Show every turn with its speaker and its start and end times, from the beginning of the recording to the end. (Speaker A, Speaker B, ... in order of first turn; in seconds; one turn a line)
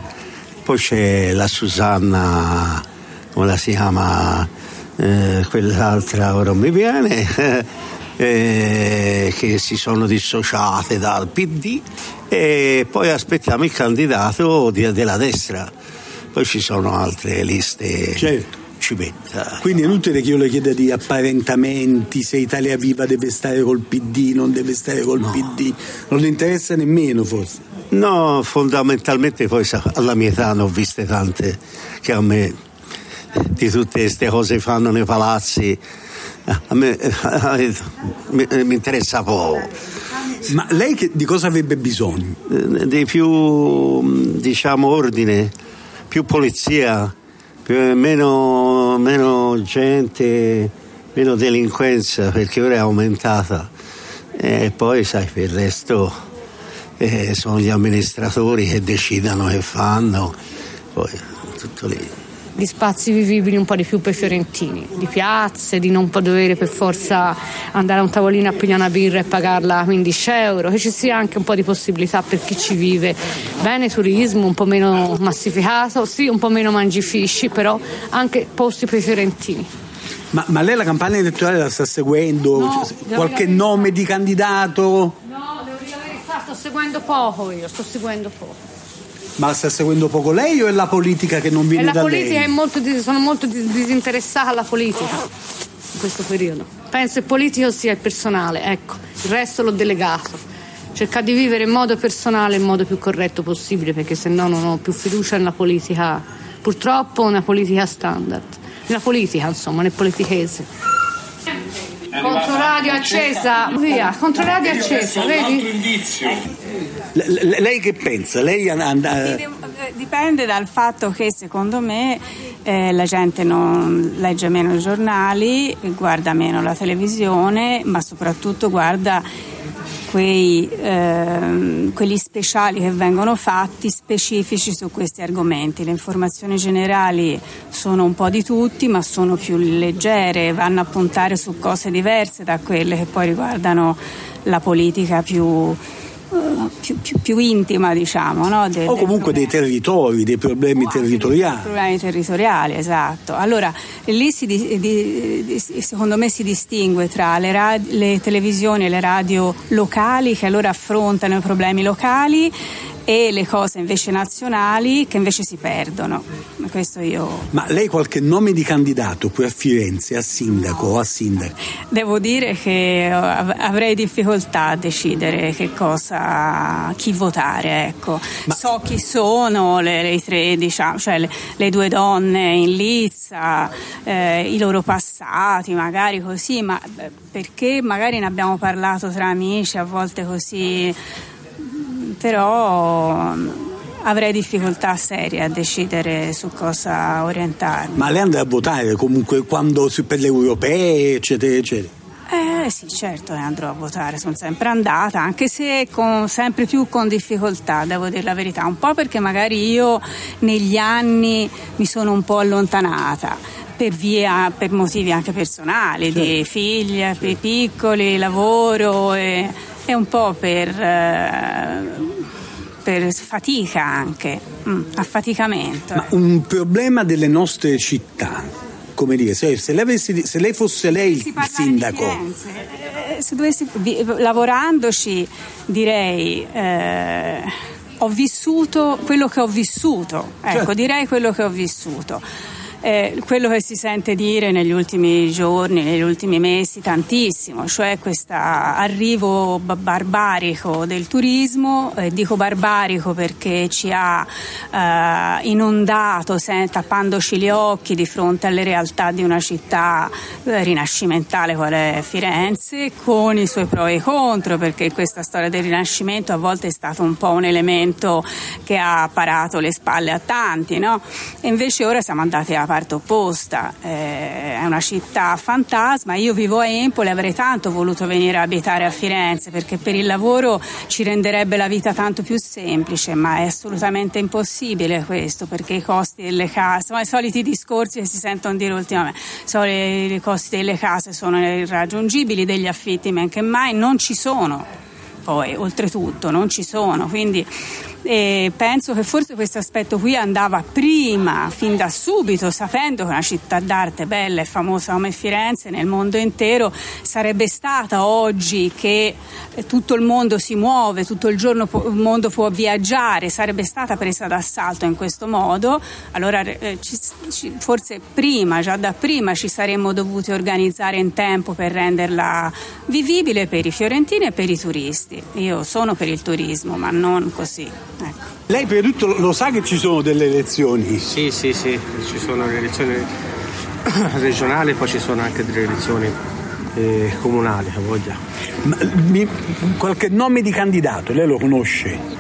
Speaker A: 0.7-2.8
Speaker A: 3.4-15.7
Speaker A: 16.3-19.7
Speaker B: 18.2-18.6
Speaker B: 19.6-27.6
Speaker A: 27.9-32.6
Speaker A: 33.4-35.8
Speaker A: 36.5-39.8
Speaker B: 40.5-42.4
Speaker A: 42.5-45.5
Speaker A: 46.1-47.1
Speaker A: 47.7-53.7
Speaker A: 54.4-56.2
Speaker A: 57.0-60.4
Speaker A: 61.0-62.1
Speaker C: 62.6-79.7
Speaker B: 80.3-85.2
Speaker C: 82.5-83.7
Speaker C: 85.4-88.6
Speaker B: 89.4-92.6
Speaker C: 91.7-95.2
Speaker C: 96.0-100.4
Speaker C: 101.0-110.7
Speaker C: 112.2-116.1
Speaker B: 117.2-119.4
Speaker D: 119.2-129.3
Speaker D: 130.1-145.8
Speaker D: 146.3-149.5
Speaker B: 148.9-151.7
Speaker D: 150.8-162.5
Speaker D: 163.1-167.5
Speaker B: 167.5-171.6
Speaker D: 171.9-191.0
Speaker D: 191.6-198.1
Speaker B: 197.9-201.9
Speaker D: 202.3-222.2
Speaker D: 222.8-226.1
Speaker B: 225.9-232.2
Speaker D: 231.0-242.2
Speaker D: 242.8-294.7
Speaker D: 295.2-297.5
Speaker D: 298.1-328.2
Speaker B: 328.5-331.1
Speaker E: 331.1-333.1
Speaker E: 334.0-336.2
Speaker E: 336.8-338.2
Speaker B: 338.6-342.0